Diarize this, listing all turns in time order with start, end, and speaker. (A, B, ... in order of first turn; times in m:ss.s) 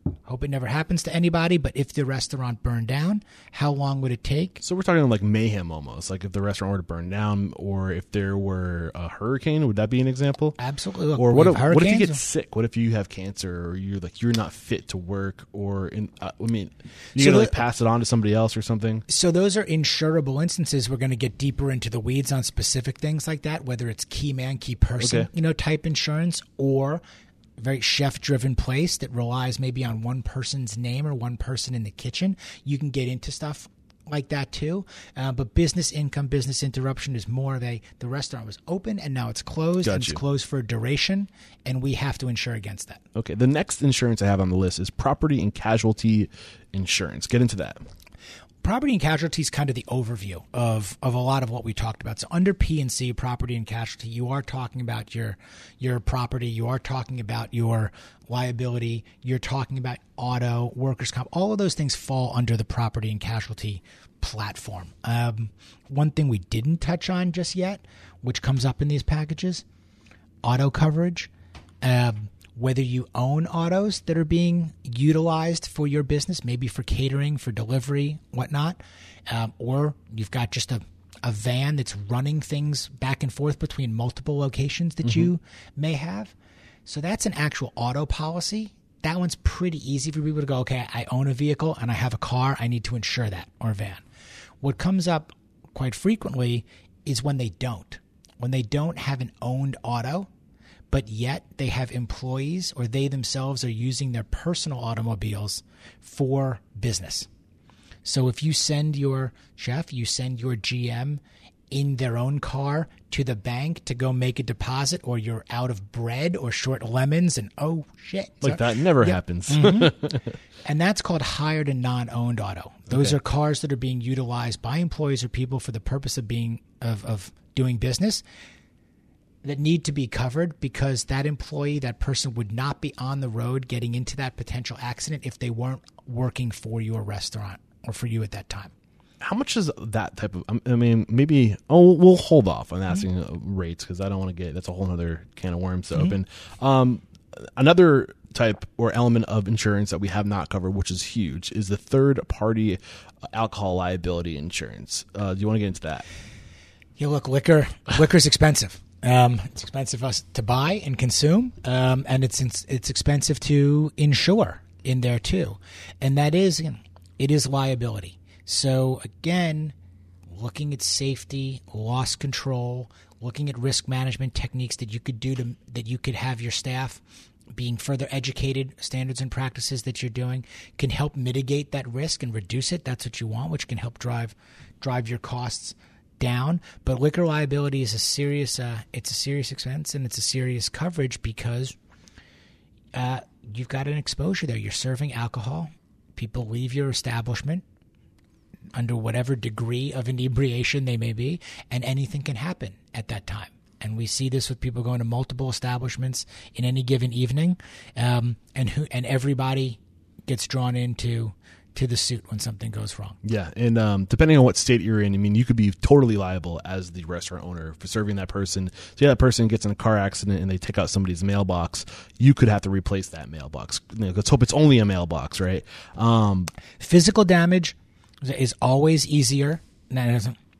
0:00.2-0:04.6 A
0:04.6-0:10.6 B
0:10.6-0:12.2 A
0:11.2-0:19.0 B
0:17.2-0:17.6 A
0:19.1-0:27.0 A
0:25.0-0:25.3 B
0:27.6-0:43.0 A
0:39.8-0:40.2 B
0:43.1-0:47.8 B
0:48.6-1:09.6 A
1:10.4-1:11.3 A
1:11.8-1:26.3 A
1:26.8-1:34.0 A
1:34.6-1:40.3 A
1:40.9-1:47.3 A
1:48.0-1:59.9 A
1:58.4-2:00.4 B
2:00.6-2:08.2 A
2:02.9-2:03.2 B
2:09.4-2:18.7 A
2:19.2-2:32.8 B
2:33.3-2:36.0 B
2:37.0-2:49.7 A
2:50.3-2:57.0 A
2:57.5-3:11.8 A
3:12.9-3:17.6 A
3:18.7-3:33.2 A
3:33.2-3:46.5 B
3:46.8-3:50.4 A